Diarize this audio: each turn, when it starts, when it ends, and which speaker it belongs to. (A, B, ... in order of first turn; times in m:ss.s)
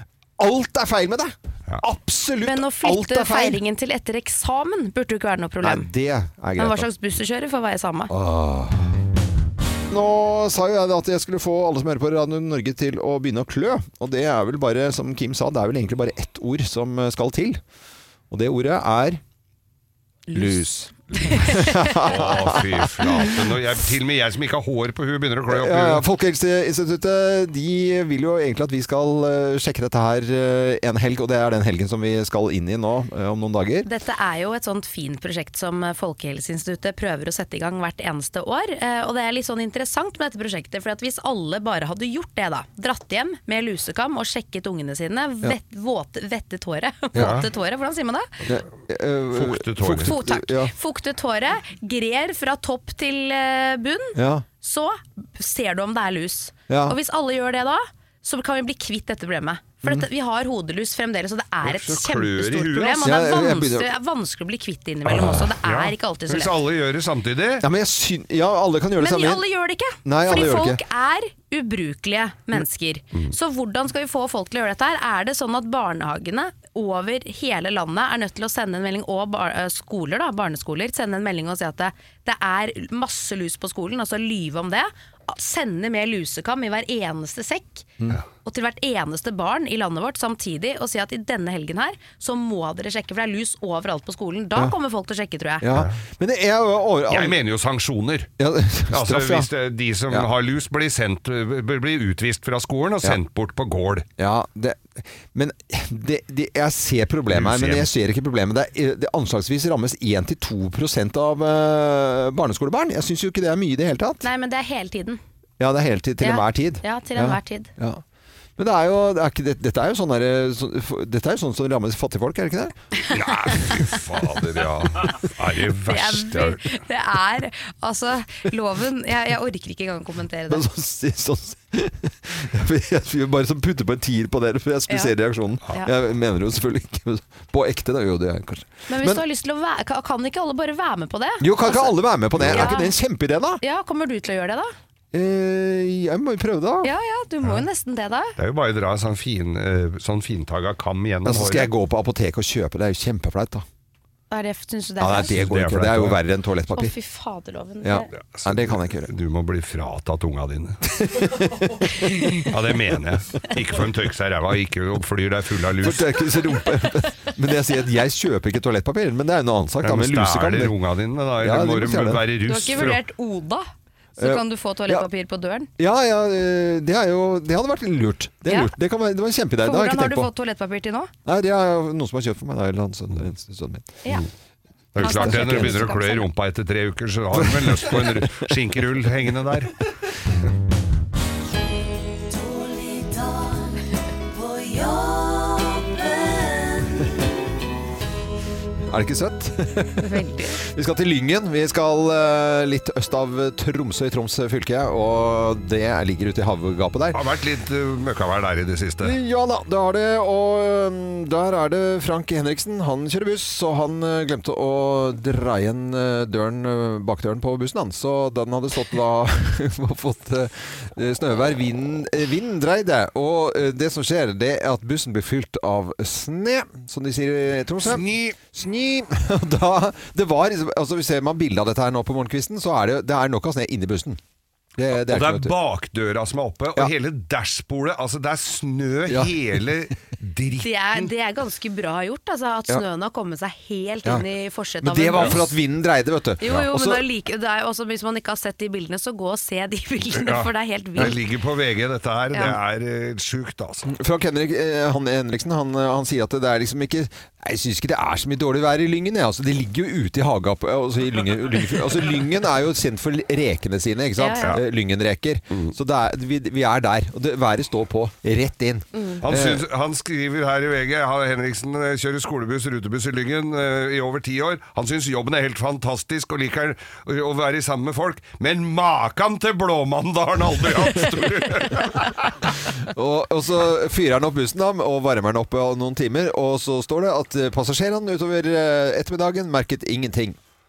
0:00.4-0:03.6 A
0:02.4-0:05.9 B
0:05.6-0:06.9 A
0:06.6-0:08.1 B
0:08.1-0:08.9 A
0:09.9-0:17.6 A
0:18.3-0:19.2 A
0:20.3-0:20.6 B
0:20.3-0:23.4 A
0:21.2-0:21.8 B
0:21.2-0:26.0 C
0:25.5-0:33.9 A
0:33.8-0:48.3 B
0:47.2-0:47.5 C
0:48.4-0:50.7 A
0:49.3-0:50.2 C
0:50.0-1:06.6 B
0:54.2-0:54.4 A
0:56.7-0:57.0 A
1:01.6-1:03.2 C
1:03.0-1:03.9 A
1:05.1-1:07.7 C
1:07.6-1:09.4 A
1:09.0-1:27.9 B
1:10.0-1:10.8 A
1:28.4-1:35.7 B
1:35.6-1:37.4 A
1:37.1-1:38.3 C
1:38.4-1:39.5 A
1:38.9-1:44.1 C
1:44.2-1:54.3 A
1:47.3-1:47.9 C
1:54.2-1:55.2 B
1:55.6-1:58.0 A
1:56.2-1:57.7 B
1:58.6-2:02.7 A
2:03.1-2:06.7 C
2:05.9-2:10.6 B
2:10.5-2:19.2 A
2:18.9-2:22.9 B
2:21.4-2:23.6 A
2:22.4-2:22.8 C
2:23.6-2:24.7 B
2:25.1-2:26.9 A
2:26.8-2:28.4 B
2:28.4-2:31.7 C
2:31.2-2:33.6 A
2:34.3-2:35.4 B
2:35.0-2:36.9 A
2:35.1-2:36.2 C
2:36.8-2:38.1 B
2:37.8-2:39.1 A
2:38.3-2:40.9 C
2:40.9-2:42.1 A
2:42.4-2:46.5 C
2:45.8-2:50.8 A
2:49.8-2:53.0 C
2:51.4-2:52.2 A
2:52.5-2:55.7 B
2:54.2-2:55.1 A
2:55.8-3:00.3 A
2:59.6-3:01.1 B
3:01.2-3:04.0 A
3:05.0-3:09.8 C
3:05.0-3:05.8 A
3:05.0-3:06.3 B
3:07.3-3:08.5 A
3:18.9-3:27.2 A
3:20.0-3:20.6 B
3:27.1-3:29.2 C
3:29.0-3:54.2 A
3:47.8-3:48.4 C
3:54.8-3:55.6 A
3:54.9-4:01.1 C
4:00.6-4:05.5 B
4:04.8-4:07.0 A
4:06.4-4:11.2 B
4:10.1-4:13.9 C
4:13.9-4:29.6 A
4:24.2-4:24.6 B
4:29.2-4:42.5 C
4:42.8-4:50.4 A